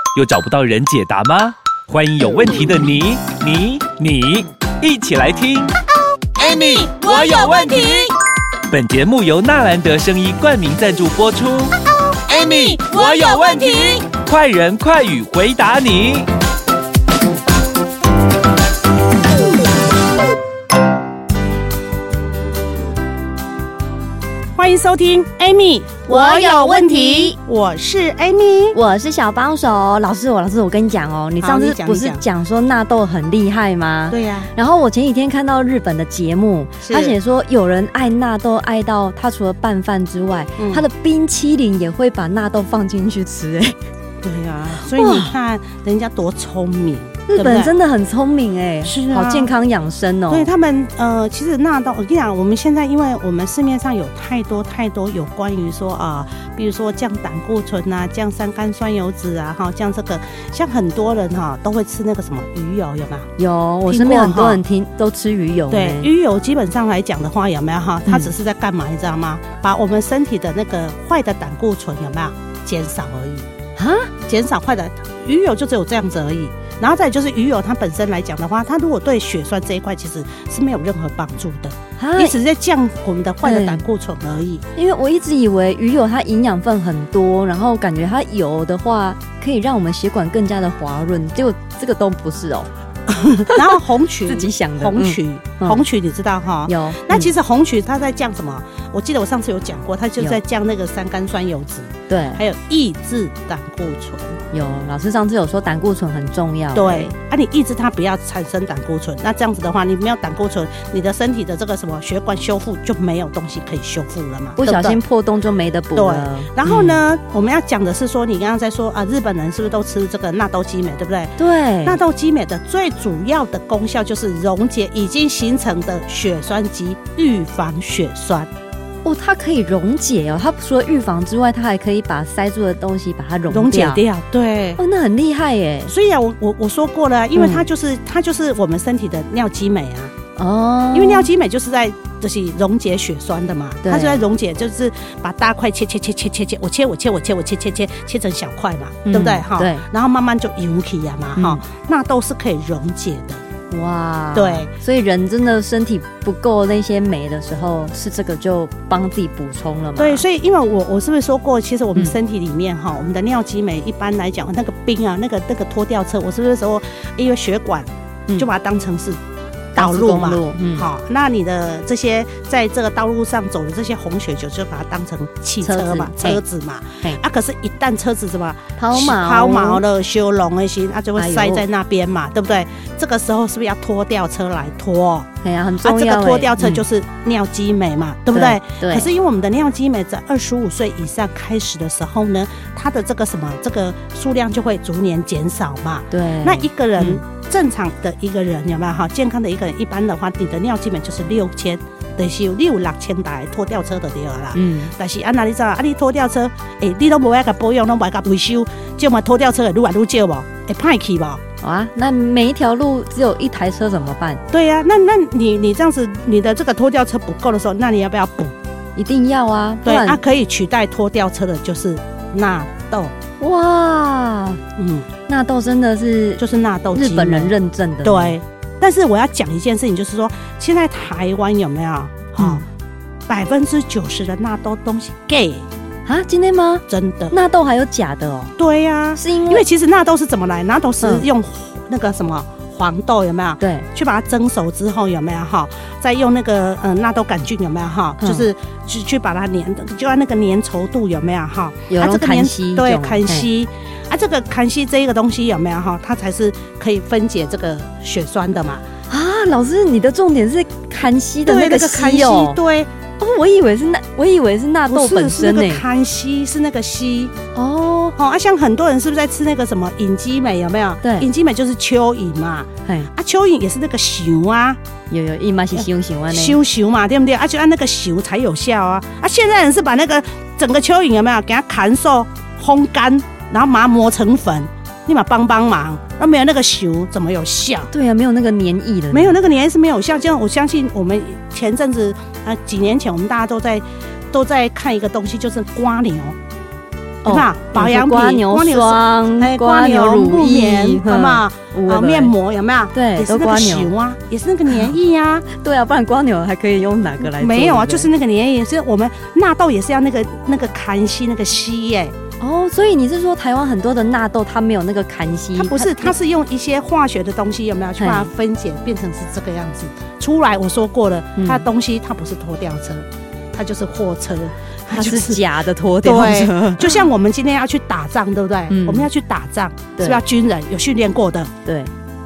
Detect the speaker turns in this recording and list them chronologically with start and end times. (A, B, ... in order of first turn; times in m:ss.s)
0:00.2-0:05.7 A
0:06.3-0:08.1 B
0:08.7-0:11.7 A
0:12.3-0:14.1 B
0:14.2-0:16.2 A
0:24.6-0:28.8 C
0:26.1-0:27.4 D
0:28.7-0:43.8 D
0:31.4-0:32.2 C
0:34.1-0:34.5 C
0:36.8-0:37.2 C
0:40.6-0:40.9 C
0:44.2-0:47.7 C
0:44.8-0:45.3 D
0:47.3-0:50.5 D
0:48.8-0:49.5 C
0:50.3-1:03.3 C
1:03.4-1:06.1 D
1:03.9-1:04.6 C
1:05.7-1:13.5 C
1:08.0-1:08.3 D
1:13.8-1:14.1 D
1:14.2-1:24.6 C
1:22.0-1:22.3 D
1:23.4-1:23.8 D
1:24.7-1:32.7 D
1:33.5-1:44.4 C
1:34.3-1:35.8 D
1:36.7-1:37.3 D
1:42.1-1:42.4 D
1:44.5-1:47.1 D
1:46.7-1:55.0 C
1:54.6-1:57.0 D
1:55.9-2:08.5 C
2:01.4-2:02.0 D
2:09.0-2:14.0 D
2:13.5-2:14.8 C
2:14.8-2:15.9 D
2:15.9-2:20.1 C
2:17.4-2:17.7 D
2:20.4-2:21.3 D
2:20.9-2:33.4 C
2:23.8-2:24.2 D
2:29.1-2:29.8 D
2:31.4-2:31.6 D
2:33.7-2:40.2 D
2:34.3-2:34.7 C
2:40.0-2:49.2 C
2:49.7-2:50.9 D
2:49.8-3:05.3 C
2:55.6-2:56.4 D
2:58.8-2:59.8 D
3:01.2-3:01.6 D
3:05.4-3:06.8 D
3:05.8-3:31.4 C
3:08.3-3:09.1 D
3:16.1-3:17.2 D
3:24.5-3:24.9 D
3:31.6-3:34.4 D
3:34.5-3:38.5 C
3:39.0-3:40.2 D
3:39.8-3:43.1 C
3:43.4-3:44.6 D
3:44.8-3:45.1 C
3:45.3-3:48.4 D
3:46.4-3:52.6 C
3:52.4-3:52.6 D
3:53.3-3:55.7 C
3:56.1-3:58.5 D
3:56.9-3:57.4 C
3:58.6-4:18.8 C
3:59.2-3:59.6 D
4:03.6-4:03.9 D
4:08.2-4:08.5 D
4:11.9-4:13.5 D
4:19.1-4:22.6 D
4:21.4-4:22.9 C
4:23.2-4:25.8 D
4:24.9-4:27.3 C
4:27.5-4:28.1 D
4:28.1-4:34.8 C
4:31.0-4:31.3 D
4:35.1-4:36.6 D
4:35.7-4:47.9 C
4:47.9-4:49.4 D
4:49.1-4:56.4 C
4:57.2-5:02.3 D
4:57.2-5:05.5 C
5:02.9-5:03.9 D
5:05.5-5:08.1 D
5:07.2-5:12.2 C
5:12.4-5:16.1 D
5:15.6-5:25.4 C
5:18.0-5:18.3 D
5:21.4-5:21.6 D
5:24.9-5:27.0 D
5:26.0-5:31.5 C
5:28.7-5:29.1 D
5:30.0-5:30.2 D
5:31.6-5:31.9 D